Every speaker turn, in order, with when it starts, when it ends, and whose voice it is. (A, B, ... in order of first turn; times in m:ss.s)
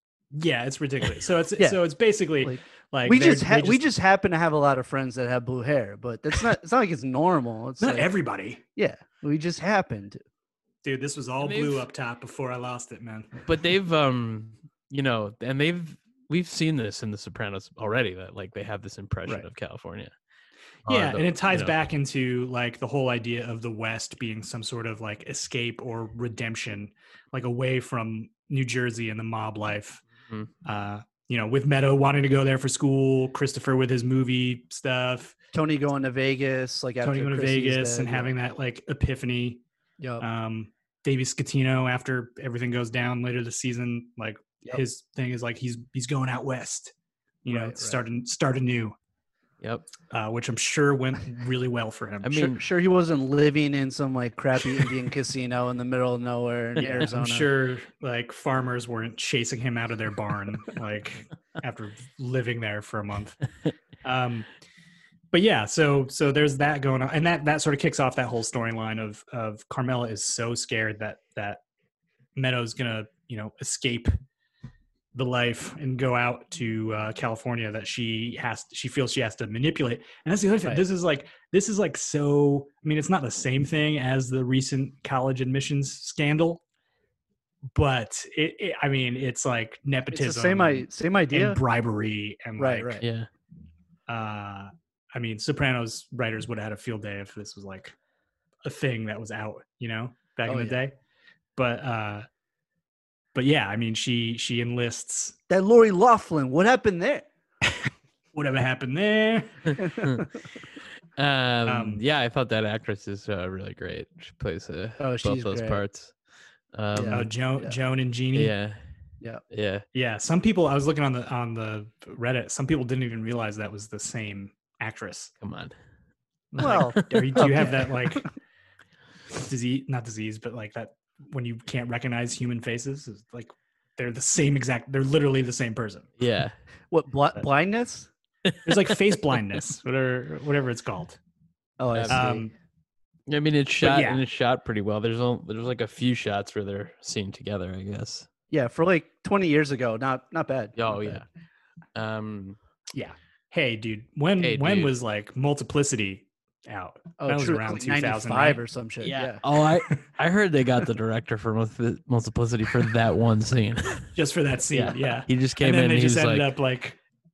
0:00.3-0:03.9 A
0:02.4-0:08.1 B
0:07.8-0:08.6 A
0:08.7-0:10.2 B
0:10.8-0:13.4 A
0:11.4-0:11.9 C
0:13.4-0:20.1 C
0:20.9-0:21.7 C
0:20.9-0:30.0 A
0:30.6-0:35.3 A
0:35.5-0:38.3 B
0:37.0-0:39.6 A
0:40.0-0:40.2 B
0:40.2-0:46.9 A
0:47.4-0:49.0 A
0:47.5-0:48.0 B
0:50.1-0:52.5 A
0:52.2-0:52.6 C
0:52.5-0:57.5 B
0:56.8-1:03.5 A
1:04.0-1:04.5 A
1:05.3-1:11.6 A
1:12.4-1:14.2 A
1:15.1-1:26.6 A
1:27.7-1:33.0 A
1:30.1-1:31.6 B
1:32.6-1:33.0 B
1:33.0-1:33.3 C
1:34.1-1:38.0 A
1:38.6-1:41.0 A
1:40.5-1:40.8 B
1:41.6-1:42.3 A
1:43.4-1:45.4 A
1:45.5-1:47.2 B
1:48.3-1:49.8 A
1:49.8-1:50.2 B
1:51.2-1:56.1 C
1:51.7-1:52.0 A
1:55.0-1:55.8 B
1:56.7-1:57.3 C
1:56.9-1:57.8 B
1:57.1-1:58.5 A
1:58.3-1:58.8 C
1:59.5-1:59.8 C
1:59.9-2:05.3 A
2:05.4-2:05.7 C
2:06.5-2:08.3 A
2:06.6-2:08.3 B
2:06.7-2:07.7 C
2:09.3-2:16.1 A
2:16.2-2:16.5 C
2:16.9-2:18.1 B
2:18.5-2:18.9 C
2:18.6-2:21.2 A
2:21.8-2:22.4 B
2:22.0-2:22.2 C
2:22.1-2:22.5 A
2:23.3-2:28.3 C
2:23.8-2:24.2 A
2:28.5-2:31.2 B
2:30.8-2:31.2 C
2:32.0-2:32.6 C
2:32.9-2:38.6 A
2:34.4-2:34.9 C
2:37.2-2:39.4 B
2:39.0-2:44.1 C
2:44.2-2:47.0 A
2:44.7-2:46.5 C